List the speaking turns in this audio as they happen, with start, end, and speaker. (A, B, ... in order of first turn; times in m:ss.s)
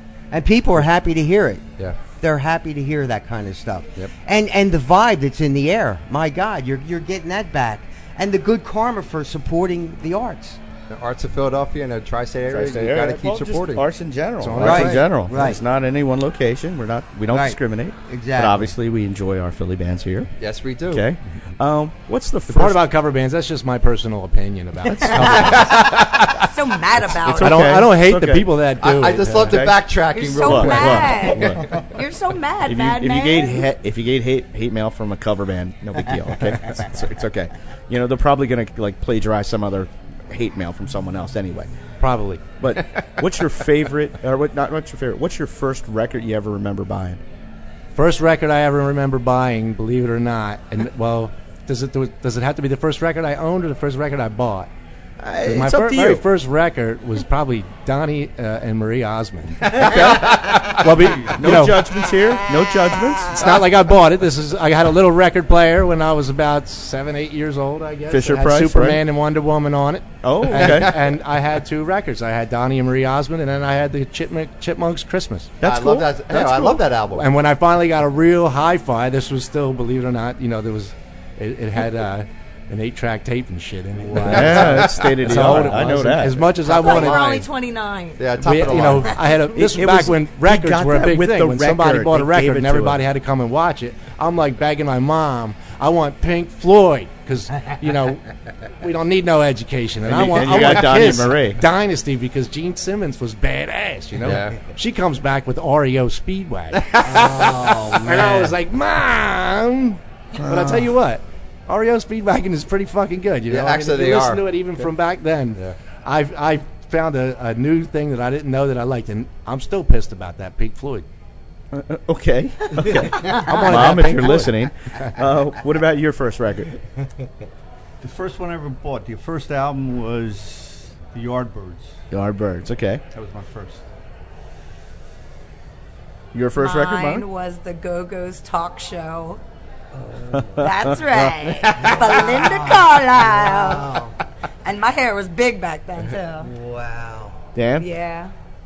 0:00.3-0:10.6 A
0:10.9-0:13.9 B
0:12.5-0:20.3 C
0:14.4-0:15.2 D
0:14.6-0:15.0 B
0:14.6-0:15.6 A
0:17.3-0:18.7 A
0:20.4-0:21.1 B
0:20.9-0:22.8 C
0:22.5-0:26.3 D
0:24.9-0:25.6 C
0:25.5-0:26.0 B
0:26.4-0:27.8 E
0:27.0-0:28.5 C
0:27.4-0:29.7 D
0:28.8-0:31.7 B
0:29.4-0:29.8 C
0:30.1-0:33.7 E
0:30.4-0:31.9 C
0:32.6-0:41.7 C
0:42.0-0:42.4 D
0:42.6-0:47.2 C
0:48.0-0:54.7 D
0:55.2-0:56.2 C
0:55.4-1:02.0 D
0:59.6-1:03.7 C
1:03.3-1:15.6 D
1:08.1-1:09.0 C
1:10.2-1:11.0 C
1:15.6-1:16.9 C
1:15.6-1:17.3 B
1:17.1-1:27.5 D
1:24.2-1:26.5 C
1:24.3-1:25.6 B
1:26.7-1:28.4 E
1:26.7-1:27.3 B
1:28.2-1:29.2 B
1:28.4-2:01.1 D
1:29.5-1:33.0 C
1:40.1-1:41.6 C
1:44.2-1:44.7 B
1:46.8-1:47.2 B
1:47.1-1:48.4 A
1:50.4-1:50.9 C
1:53.5-1:54.4 B
2:01.7-2:06.8 C
2:03.2-2:05.0 D
2:08.0-2:12.0 F
2:12.1-2:13.0 C
2:13.1-2:13.8 F
2:16.3-2:17.2 C
2:16.6-2:19.4 E
2:19.9-2:20.7 A
2:20.3-2:22.3 C
2:20.6-2:24.0 E
2:21.8-2:24.2 A
2:24.6-2:26.5 E
2:26.4-2:27.4 A
2:27.6-2:27.9 C
2:27.8-2:28.3 E